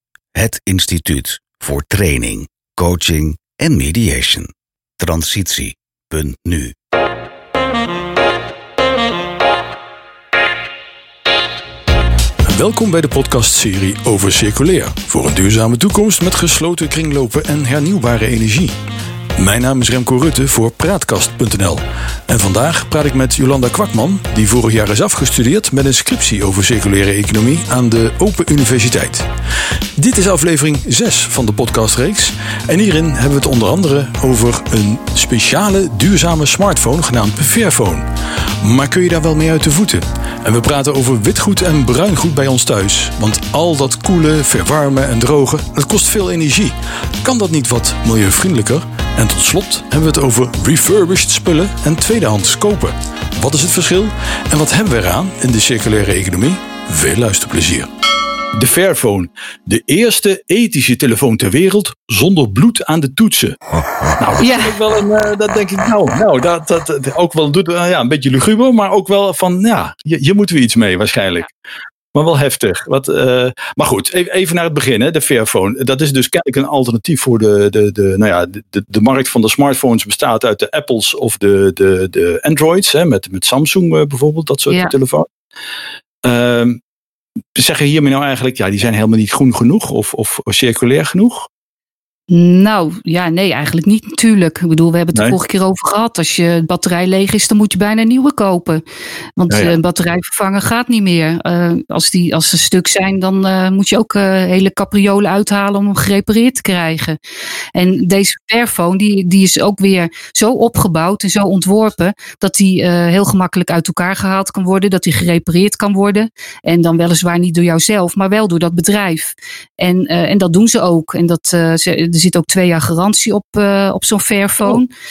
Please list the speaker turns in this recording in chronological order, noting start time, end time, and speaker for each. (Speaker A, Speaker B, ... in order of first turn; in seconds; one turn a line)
Speaker A: 0.3-6.7
Speaker B: 12.5-18.7
Speaker B: 19.4-29.3
Speaker B: 30.0-38.0
Speaker B: 38.6-57.9
Speaker B: 58.5-63.6
Speaker B: 64.2-71.5
Speaker C: 64.4-64.7
Speaker B: 72.1-85.3
Speaker B: 86.2-86.8
Speaker B: 87.5-91.5
Speaker C: 92.3-98.8
Speaker C: 99.4-107.2
Speaker B: 99.5-99.8
Speaker C: 107.7-124.9